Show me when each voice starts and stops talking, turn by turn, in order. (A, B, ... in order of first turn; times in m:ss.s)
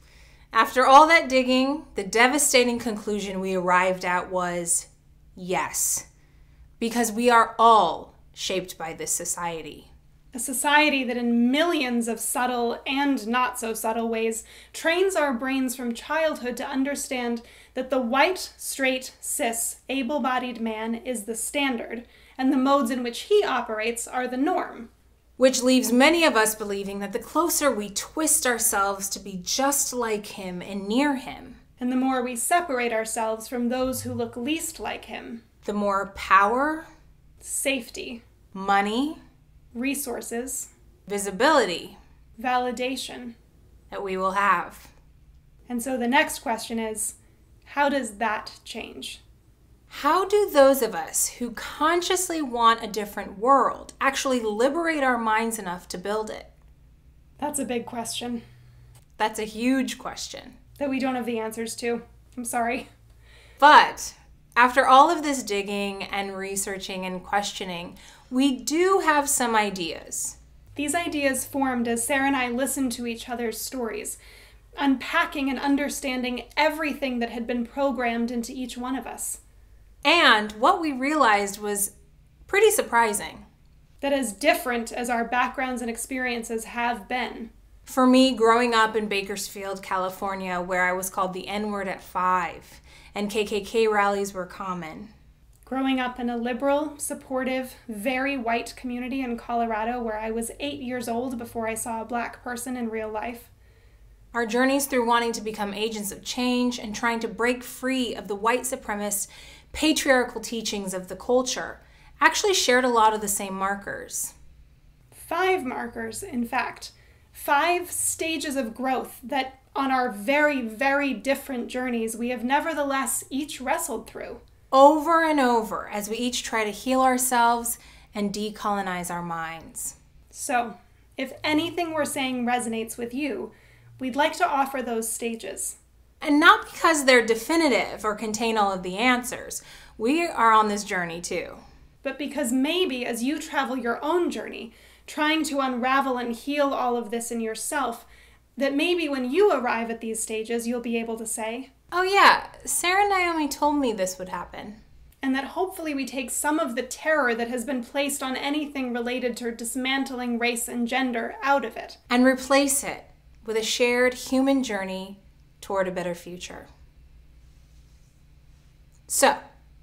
0:00.5-0:06.1 A
0:06.8-0:09.9 A
0:10.3-0:24.9 B
0:25.4-0:31.6 A
0:31.8-0:35.4 B
0:35.6-0:36.9 A
0:37.4-0:38.2 B
0:38.5-0:39.2 A
0:39.7-0:40.7 B
0:41.1-0:42.0 A
0:42.4-0:43.4 B
0:43.9-0:44.9 A
0:45.7-0:49.2 B
0:49.9-0:56.5 A
0:57.4-0:58.4 B
0:59.2-1:00.6 A
1:00.8-1:02.9 B
1:03.6-1:10.4 A
1:10.8-1:14.2 B
1:14.8-1:19.4 B
1:20.0-1:21.9 A
1:22.5-1:23.4 A
1:24.0-1:27.5 B
1:27.9-1:35.1 A
1:35.7-1:43.5 B
1:44.3-1:54.3 A
1:55.1-2:04.4 B
2:04.7-2:10.0 A
2:10.3-2:15.8 B
2:16.2-2:21.6 A
2:22.0-2:31.7 B
2:31.9-2:34.8 A
2:35.2-2:42.0 B
2:42.1-2:46.7 A
2:49.1-2:49.4 A